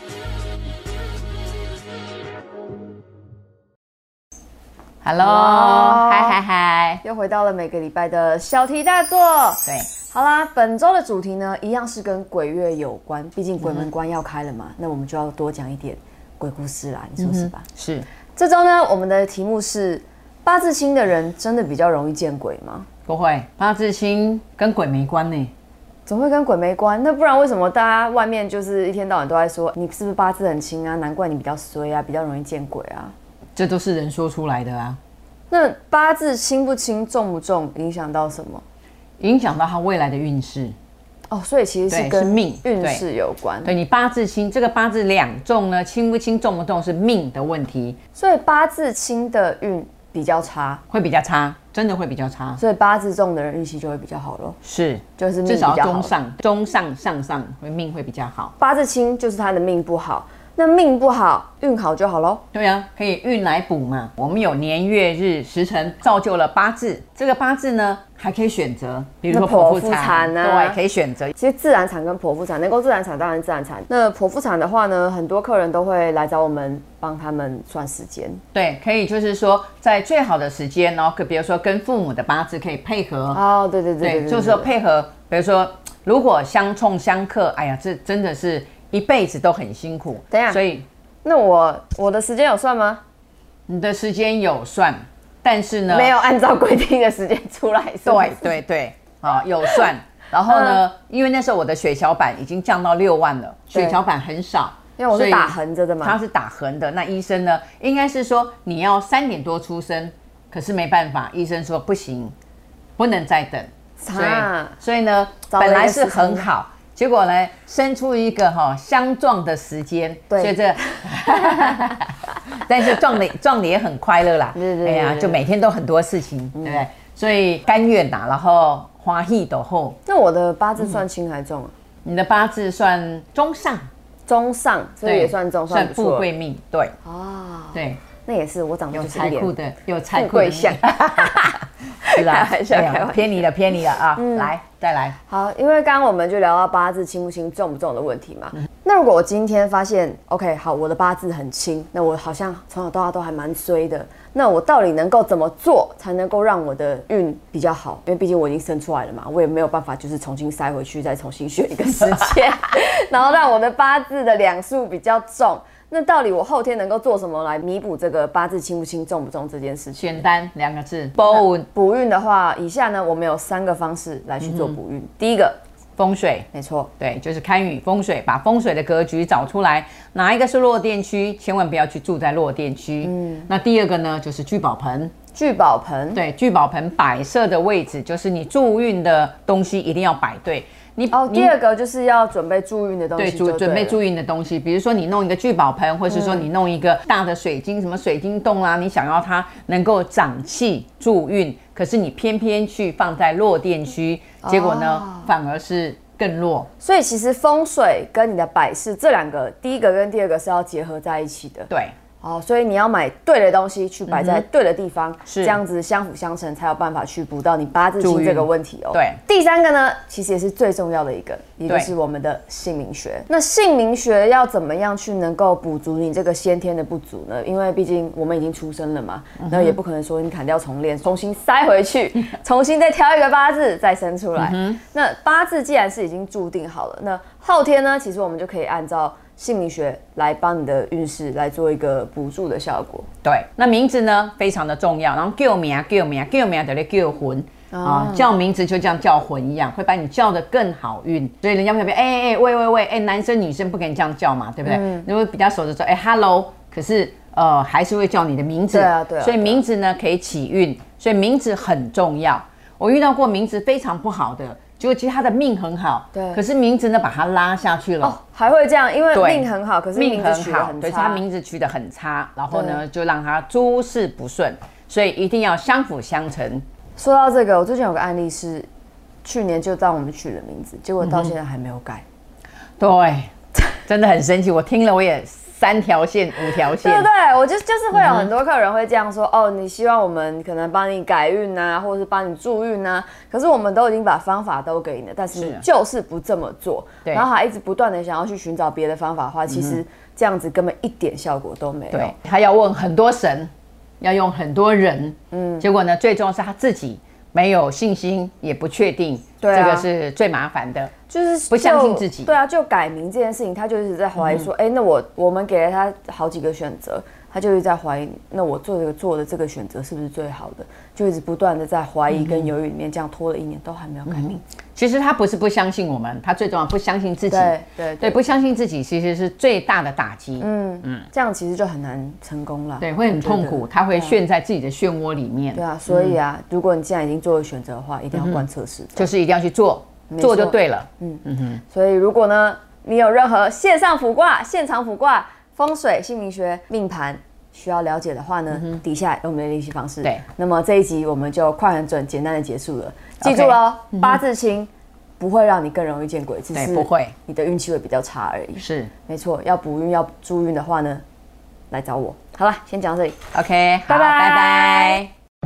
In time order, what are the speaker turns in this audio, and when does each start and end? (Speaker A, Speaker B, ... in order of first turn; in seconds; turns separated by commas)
Speaker A: 5.0-7.0, Speaker B: 5.2-6.4, Speaker B: 7.0-17.6, Speaker A: 13.6-13.9, Speaker A: 17.2-18.1, Speaker B: 18.4-22.9, Speaker A: 23.1-25.5, Speaker B: 26.1-33.1, Speaker A: 33.5-35.0, Speaker B: 35.5-38.6, Speaker A: 39.2-40.7, Speaker B: 41.3-43.7, Speaker A: 41.9-43.0, Speaker A: 43.6-48.0, Speaker B: 48.1-50.8, Speaker A: 50.9-52.6, Speaker B: 52.6-54.6, Speaker A: 54.6-58.5, Speaker B: 55.2-56.1, Speaker B: 58.6-62.4, Speaker A: 62.5-71.3, Speaker B: 69.3-70.8, Speaker B: 71.3-78.4, Speaker A: 78.5-83.4, Speaker B: 83.3-84.7, Speaker A: 84.0-90.8, Speaker B: 90.3-90.6, Speaker B: 91.2-93.0, Speaker A: 93.7-96.1, Speaker B: 95.9-98.6, Speaker A: 98.0-112.3, Speaker B: 99.7-100.8, Speaker B: 103.7-104.0, Speaker B: 105.0-106.2, Speaker A: 113.0-130.0, Speaker B: 114.0-114.8, Speaker B: 115.5-116.5, Speaker B: 120.3-121.7, Speaker B: 124.5-125.4, Speaker B: 126.5-126.8, Speaker B: 130.1-131.7, Speaker A: 132.0-133.9, Speaker B: 134.3-136.3, Speaker A: 135.0-136.9, Speaker B: 137.0-139.5, Speaker A: 137.7-138.0, Speaker A: 138.9-145.2, Speaker B: 140.1-143.5, Speaker B: 144.1-144.5, Speaker B: 145.3-170.2, Speaker A: 169.9-171.7, Speaker B: 171.3-175.6, Speaker A: 174.4-174.8, Speaker A: 176.0-176.5, Speaker B: 176.5-176.9, Speaker A: 177.0-185.1, Speaker B: 183.0-183.5, Speaker B: 185.3-186.2, Speaker A: 186.1-191.5, Speaker B: 191.1-194.0, Speaker A: 193.2-206.7, Speaker B: 196.1-196.5, Speaker B: 204.4-205.3, Speaker B: 206.8-211.7, Speaker B: 212.2-243.1, Speaker A: 214.1-214.4, Speaker A: 215.2-215.6, Speaker A: 218.0-219.2, Speaker A: 229.4-229.8, Speaker A: 234.3-234.8, Speaker A: 243.2-268.2, Speaker B: 247.7-248.3, Speaker B: 254.6-255.1, Speaker B: 258.7-259.6, Speaker B: 266.1-266.4, Speaker B: 268.0-271.2, Speaker A: 269.1-276.6, Speaker B: 272.5-272.8, Speaker B: 277.0-278.7, Speaker B: 279.2-282.0, Speaker A: 281.0-281.3, Speaker A: 282.8-283.3, Speaker A: 283.9-287.1, Speaker B: 286.6-302.1, Speaker A: 287.9-288.3, Speaker A: 295.3-295.6, Speaker A: 299.5-299.8, Speaker A: 301.9-310.9, Speaker B: 305.3-305.6, Speaker B: 309.4-309.9, Speaker B: 311.1-324.3, Speaker A: 311.5-312.3, Speaker A: 314.2-314.4, Speaker A: 322.1-322.5, Speaker A: 324.1-331.1, Speaker B: 327.3-328.2, Speaker B: 330.4-334.2, Speaker A: 332.8-336.2, Speaker B: 335.5-339.1, Speaker A: 338.1-338.4, Speaker A: 338.9-341.6, Speaker B: 340.1-361.0, Speaker A: 353.2-354.2, Speaker A: 356.5-357.1, Speaker A: 358.6-358.9, Speaker B: 361.7-363.2, Speaker A: 363.3-365.1, Speaker B: 363.9-365.0